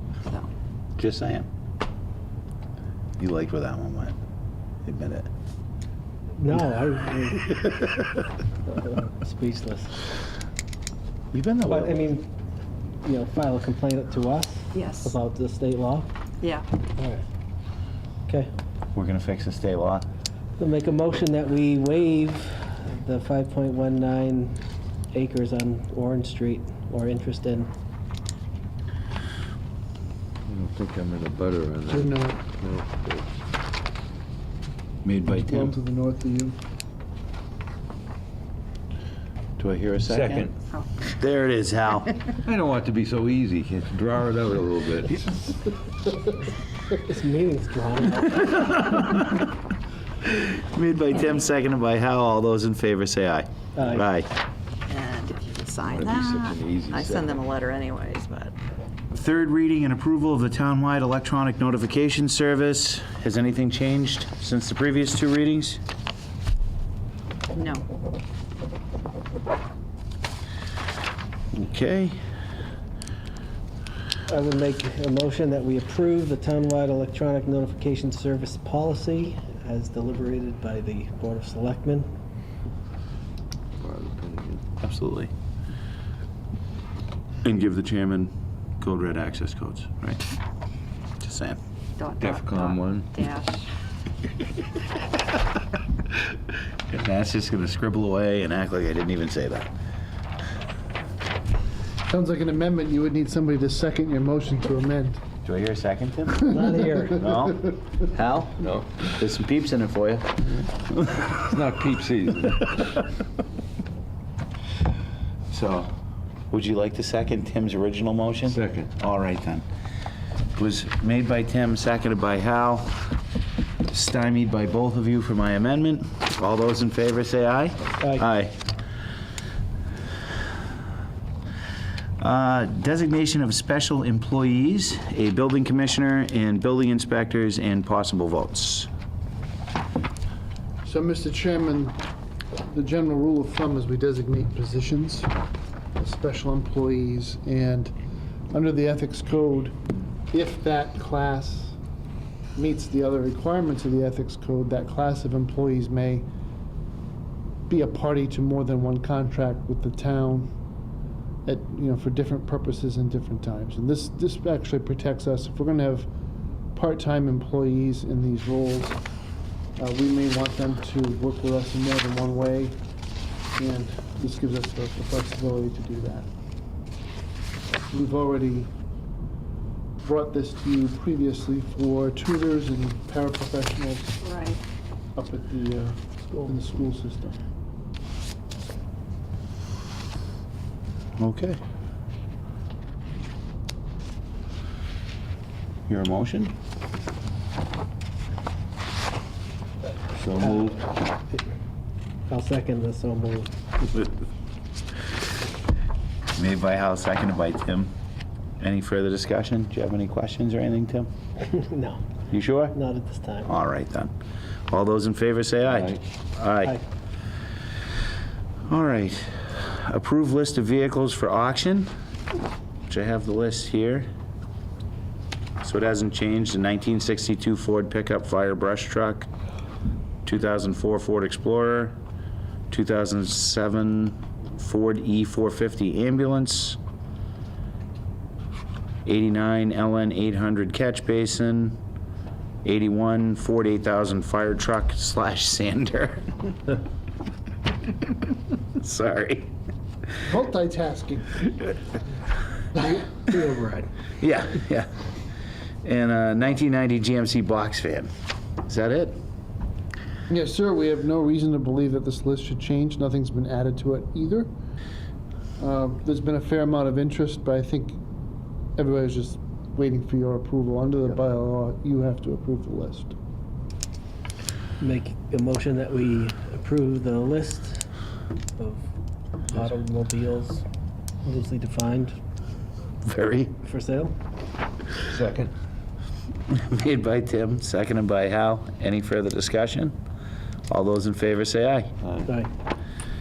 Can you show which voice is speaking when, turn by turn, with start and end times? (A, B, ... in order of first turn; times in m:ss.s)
0:01.0-0:01.5 A
0:03.2-0:04.2 A
0:04.8-0:05.3 A
0:06.4-0:07.9 B
0:08.7-0:10.0 B
0:11.3-0:12.1 A
0:11.6-0:12.3 B
0:13.0-0:16.1 B
0:14.7-0:15.1 C
0:16.4-0:16.6 C
0:17.0-0:17.2 B
0:18.9-0:20.0 A
0:20.6-0:24.6 B
0:25.1-0:27.7 B
0:30.5-0:32.1 D
0:31.9-0:32.4 E
0:32.6-0:33.2 D
0:35.0-0:35.7 A
0:35.3-0:36.6 E
0:39.6-0:40.5 A
0:40.1-0:40.5 D
0:41.0-0:42.1 A
0:42.4-0:45.2 D
0:46.9-0:48.9 B
0:48.9-0:49.4 A
0:50.3-0:54.3 A
0:53.8-0:54.1 B
0:54.9-0:58.5 C
0:55.9-0:57.4 D
0:59.1-1:05.8 A
1:07.5-1:07.8 C
1:11.5-1:12.2 A
1:14.3-1:22.1 B
1:23.8-1:24.6 D
1:24.8-1:25.3 A
1:27.4-1:30.2 A
1:31.2-1:31.6 A
1:32.0-1:33.7 C
1:32.2-1:33.1 D
1:36.9-1:39.7 A
1:42.1-1:45.2 E
1:45.4-1:46.6 A
1:46.5-1:47.2 B
1:47.1-1:50.5 A
1:48.6-1:48.9 D
1:51.4-1:52.7 D
1:55.5-1:55.9 A
1:56.5-1:59.6 A
1:58.5-1:58.9 D
2:00.5-2:03.1 A
2:03.9-2:08.6 A
2:12.2-2:18.9 A
2:20.8-2:22.0 E
2:22.7-2:25.3 E
2:26.0-2:27.9 E
2:28.5-2:29.8 E
2:30.3-2:31.8 E
2:32.6-2:36.2 E
2:37.7-2:40.5 E
2:41.4-2:46.1 E
2:46.7-2:49.0 E
2:49.8-2:52.8 E
2:53.6-2:56.3 E
2:57.9-2:58.7 E
3:00.0-3:04.2 E
3:04.2-3:04.6 C
3:05.2-3:07.4 E
3:11.2-3:11.6 A
3:15.9-3:16.5 A
3:20.1-3:20.8 A
3:20.4-3:21.4 B
3:22.3-3:24.1 B
3:26.4-3:27.9 A
3:28.6-3:31.1 A
3:31.5-3:32.0 B
3:32.3-3:32.7 A
3:32.7-3:33.5 B
3:33.4-3:34.1 A
3:34.7-3:36.8 A
3:38.7-3:41.9 A
3:42.9-3:44.1 A
3:45.6-3:49.3 A
3:50.2-3:51.9 A
3:52.7-3:56.8 A
3:59.0-4:01.8 A
4:02.6-4:06.3 A
4:08.8-4:09.5 A
4:10.2-4:11.5 E
4:12.8-4:13.9 B
4:14.2-4:14.9 A
4:15.8-4:18.1 A
4:18.6-4:19.2 A
4:20.3-4:24.5 E
4:25.6-4:28.0 E
4:28.8-4:33.1 E
4:34.8-4:37.9 B
4:38.6-4:38.9 B
4:39.5-4:40.6 B
4:41.2-4:42.2 B
4:43.0-4:43.5 A
4:43.6-4:44.1 B
4:45.1-4:45.5 D
4:46.5-4:50.0 A
4:50.7-4:51.9 A